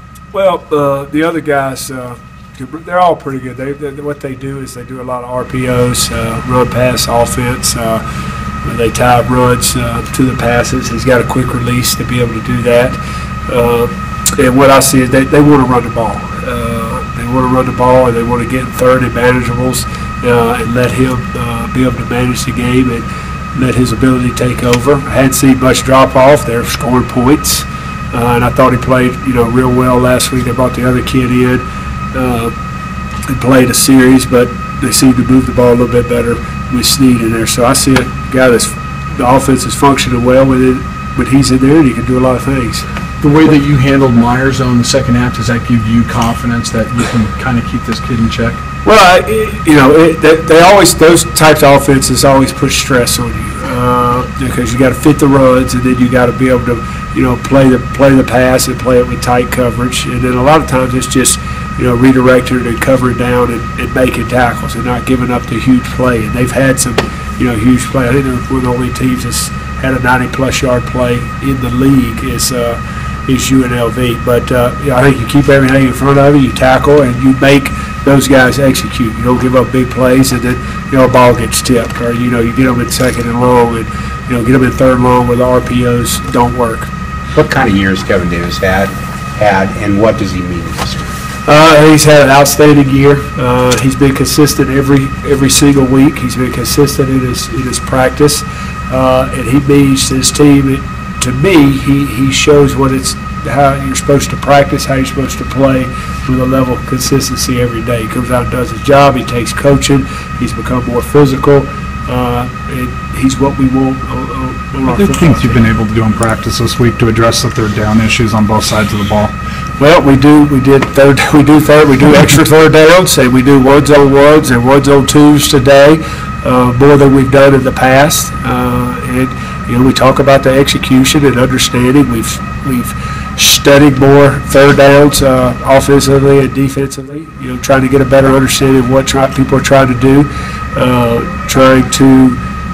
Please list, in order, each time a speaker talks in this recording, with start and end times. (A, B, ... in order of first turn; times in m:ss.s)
0:00.3-0:08.0 A
0:08.6-0:32.5 A
0:33.3-0:42.9 A
0:43.2-0:48.6 B
0:48.8-1:26.9 A
1:27.3-1:31.1 C
1:31.5-1:55.6 A
1:54.9-1:59.3 D
1:59.8-2:22.4 A